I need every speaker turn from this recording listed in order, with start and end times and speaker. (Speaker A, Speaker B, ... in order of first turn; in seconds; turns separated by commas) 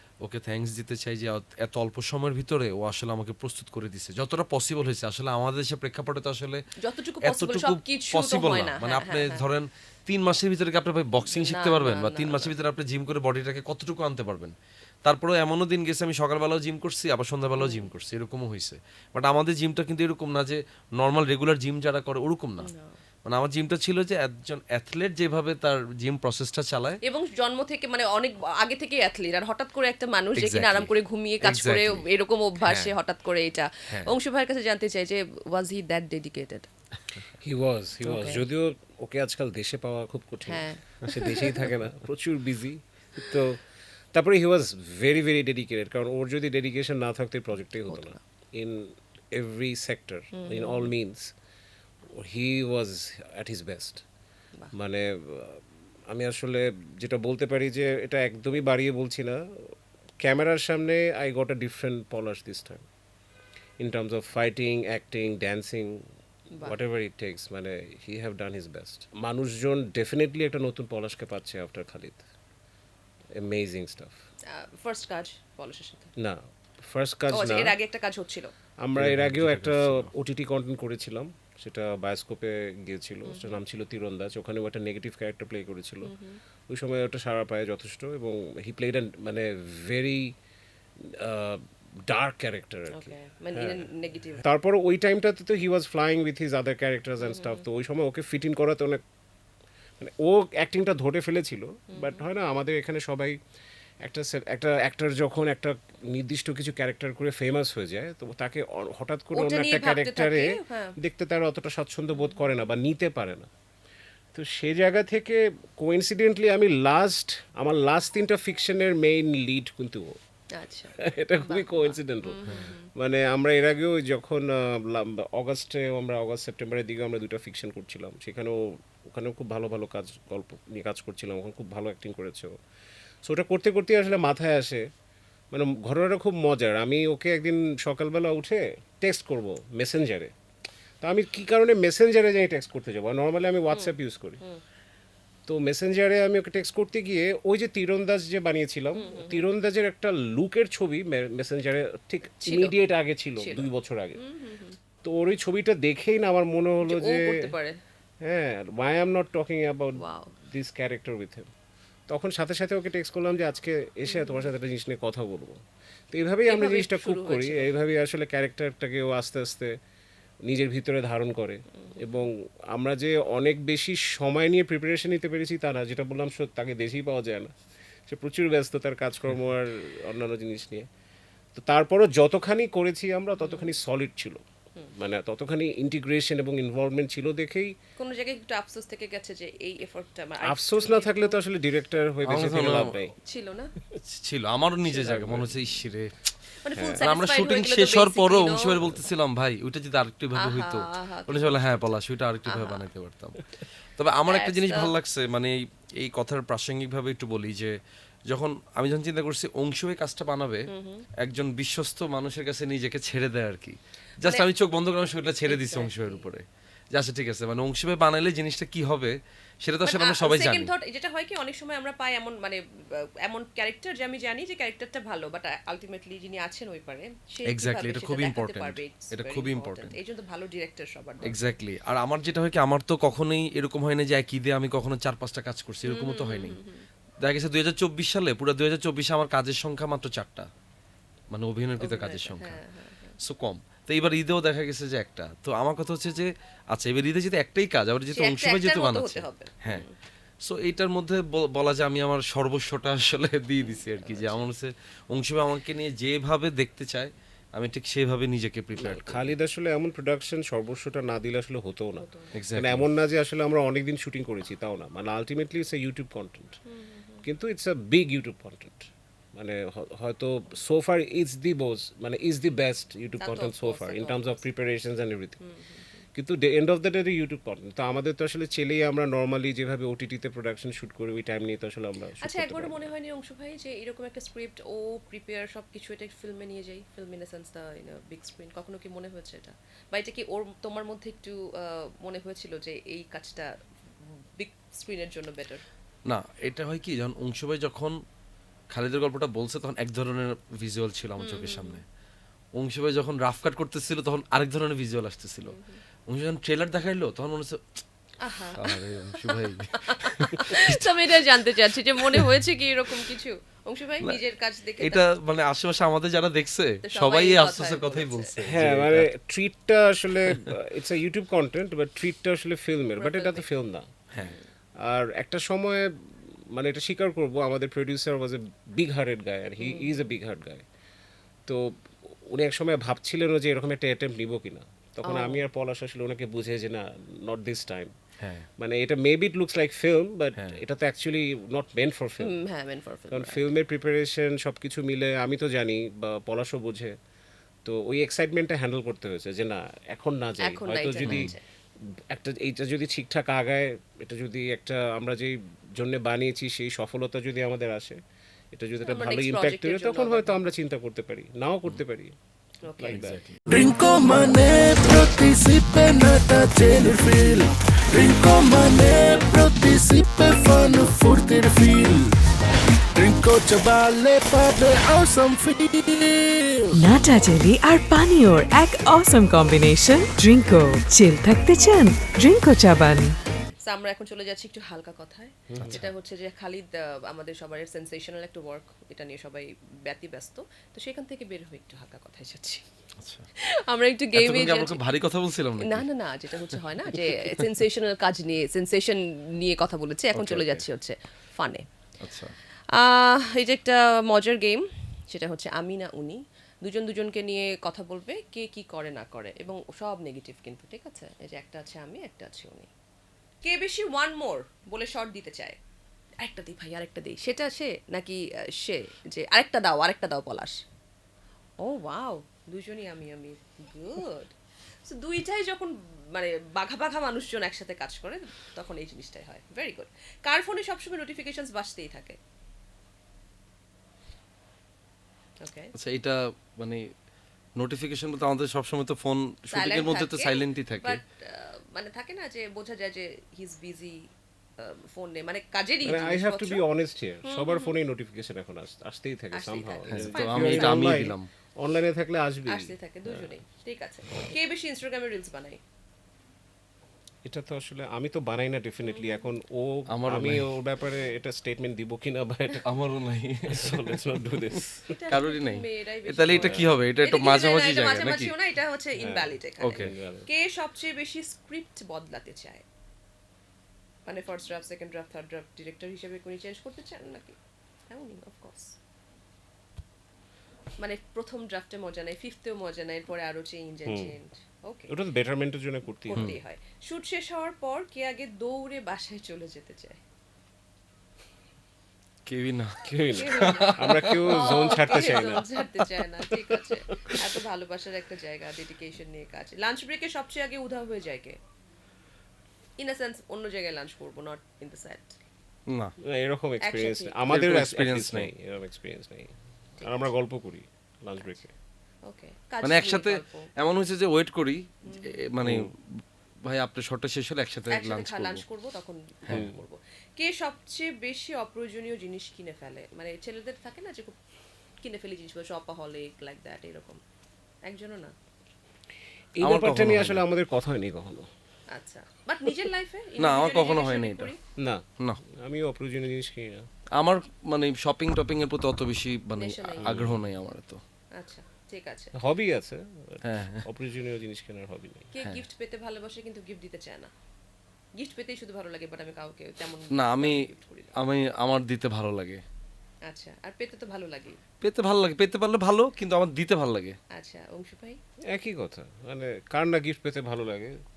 Speaker A: 0.2-6.6, Speaker B: 6.8-9.4, Speaker A: 7.2-22.7, Speaker B: 11.2-12.5, Speaker B: 17.6-17.9, Speaker B: 22.6-23.0, Speaker A: 23.2-27.0, Speaker B: 27.0-36.7, Speaker A: 30.4-32.0, Speaker A: 32.6-32.9, Speaker A: 33.9-34.2, Speaker C: 37.4-51.3, Speaker B: 38.0-38.4, Speaker B: 40.5-41.6, Speaker B: 47.9-48.2, Speaker B: 50.3-50.9, Speaker C: 52.1-54.0, Speaker C: 54.7-62.9, Speaker C: 63.8-66.1, Speaker C: 66.6-72.2, Speaker C: 73.3-74.2, Speaker B: 74.5-76.1, Speaker C: 76.2-77.8, Speaker B: 77.3-78.5, Speaker C: 78.8-86.1, Speaker A: 79.0-80.1, Speaker B: 83.2-83.5, Speaker B: 86.0-86.4, Speaker C: 86.7-90.3, Speaker C: 91.0-93.8, Speaker B: 92.9-94.4, Speaker C: 94.4-99.0, Speaker B: 97.2-97.6, Speaker C: 100.0-103.4, Speaker B: 101.9-102.2, Speaker C: 104.0-113.5, Speaker B: 109.3-110.9, Speaker B: 112.1-112.4, Speaker C: 114.3-120.2, Speaker B: 120.5-122.9, Speaker C: 121.0-132.6, Speaker C: 133.2-134.9, Speaker C: 135.5-140.3, Speaker C: 141.0-144.4, Speaker B: 143.7-144.6, Speaker C: 145.5-154.2, Speaker B: 148.9-149.4, Speaker B: 152.4-152.7, Speaker B: 153.4-154.8, Speaker C: 155.0-157.5, Speaker B: 156.8-157.8, Speaker C: 158.2-161.5, Speaker B: 160.0-160.3, Speaker C: 162.1-169.8, Speaker B: 164.1-164.5, Speaker B: 166.5-167.7, Speaker C: 170.4-177.5, Speaker B: 171.8-172.3, Speaker C: 178.1-180.9, Speaker C: 181.5-184.4, Speaker B: 183.4-183.7, Speaker C: 184.9-187.8, Speaker B: 188.0-191.4, Speaker C: 190.4-193.1, Speaker A: 192.2-192.9, Speaker B: 193.2-193.7, Speaker A: 194.0-196.3, Speaker C: 194.9-195.6, Speaker B: 196.6-198.9, Speaker C: 196.8-197.0, Speaker A: 197.0-207.8, Speaker B: 200.3-201.7, Speaker B: 202.4-202.8, Speaker B: 204.3-204.9, Speaker A: 208.3-220.7, Speaker B: 210.7-211.1, Speaker B: 215.4-216.2, Speaker B: 219.8-231.4, Speaker A: 227.5-229.9, Speaker A: 231.2-236.6, Speaker B: 235.8-236.9, Speaker A: 237.2-240.5, Speaker A: 241.3-242.6, Speaker B: 241.8-243.2, Speaker A: 243.2-249.8, Speaker B: 248.2-249.9, Speaker A: 250.4-259.3, Speaker B: 253.6-254.5, Speaker C: 258.8-266.6, Speaker B: 262.0-262.3, Speaker A: 262.3-262.9, Speaker B: 266.7-267.2, Speaker C: 267.2-275.4, Speaker B: 273.2-274.4, Speaker B: 275.4-276.0, Speaker C: 276.1-282.9, Speaker B: 282.2-295.6, Speaker A: 296.1-298.0, Speaker A: 298.7-301.8, Speaker B: 301.2-301.8, Speaker A: 302.5-307.8, Speaker B: 305.5-305.8, Speaker B: 308.2-315.1, Speaker A: 308.5-312.4, Speaker A: 314.8-319.1, Speaker B: 316.8-318.4, Speaker C: 318.4-323.9, Speaker B: 323.0-323.4, Speaker A: 324.1-324.4, Speaker B: 324.2-324.5, Speaker C: 324.8-330.6, Speaker B: 329.6-330.1, Speaker C: 331.5-337.9, Speaker B: 335.1-335.4, Speaker A: 338.2-338.5, Speaker C: 338.6-342.4, Speaker B: 342.2-343.5, Speaker C: 343.1-346.9, Speaker C: 347.6-351.3, Speaker B: 350.4-351.4, Speaker A: 351.0-351.3, Speaker C: 352.1-358.0, Speaker C: 358.5-362.1, Speaker B: 358.8-360.4, Speaker B: 362.6-363.1, Speaker C: 362.7-363.2, Speaker A: 362.9-363.4, Speaker D: 363.5-372.2, Speaker D: 372.9-376.7, Speaker E: 376.7-383.1, Speaker B: 383.5-392.6, Speaker C: 385.5-385.8, Speaker A: 385.6-385.9, Speaker A: 393.0-393.3, Speaker B: 393.4-394.8, Speaker A: 394.1-395.9, Speaker B: 395.6-401.7, Speaker A: 396.5-397.4, Speaker A: 400.1-400.6, Speaker A: 402.0-402.3, Speaker B: 402.7-412.7, Speaker B: 413.4-415.6, Speaker B: 416.2-420.6, Speaker B: 421.6-424.3, Speaker B: 424.8-432.2, Speaker B: 435.4-435.7, Speaker A: 435.7-436.9, Speaker A: 437.6-441.0, Speaker B: 439.5-444.1, Speaker B: 444.6-446.6, Speaker C: 445.8-453.3, Speaker B: 447.2-447.7, Speaker B: 449.3-451.0, Speaker A: 449.9-451.3, Speaker B: 452.4-455.6, Speaker C: 457.2-462.6, Speaker B: 458.8-459.3, Speaker A: 459.9-460.4, Speaker A: 462.6-468.3, Speaker C: 463.5-464.9, Speaker B: 464.9-472.6, Speaker C: 466.3-466.7, Speaker C: 469.0-470.3, Speaker A: 469.6-469.9, Speaker B: 474.1-477.4, Speaker B: 477.9-478.8, Speaker B: 480.8-484.9, Speaker C: 483.9-484.1, Speaker C: 484.9-486.4, Speaker B: 486.1-490.0, Speaker A: 492.2-495.4, Speaker C: 492.8-495.5, Speaker B: 493.1-501.4, Speaker C: 496.5-497.3, Speaker B: 502.8-505.2, Speaker A: 505.7-505.9, Speaker C: 506.0-511.5, Speaker B: 506.6-507.2, Speaker A: 507.3-508.3, Speaker B: 512.0-513.5, Speaker A: 512.6-518.4, Speaker B: 514.9-515.2, Speaker C: 515.4-515.7, Speaker B: 517.7-524.1, Speaker C: 519.3-519.6, Speaker B: 524.8-527.0, Speaker B: 527.6-528.1, Speaker C: 529.4-531.3, Speaker A: 529.4-530.2, Speaker B: 531.7-534.4, Speaker A: 533.2-534.3, Speaker C: 534.6-536.7, Speaker A: 536.9-540.8, Speaker B: 539.4-539.9, Speaker C: 539.8-540.2, Speaker B: 541.1-542.1, Speaker C: 542.1-545.1, Speaker A: 543.2-543.6, Speaker B: 545.1-547.1, Speaker B: 548.0-550.9, Speaker A: 549.9-552.4, Speaker B: 553.0-554.4, Speaker A: 554.6-557.0, Speaker B: 557.1-558.0, Speaker C: 558.3-560.8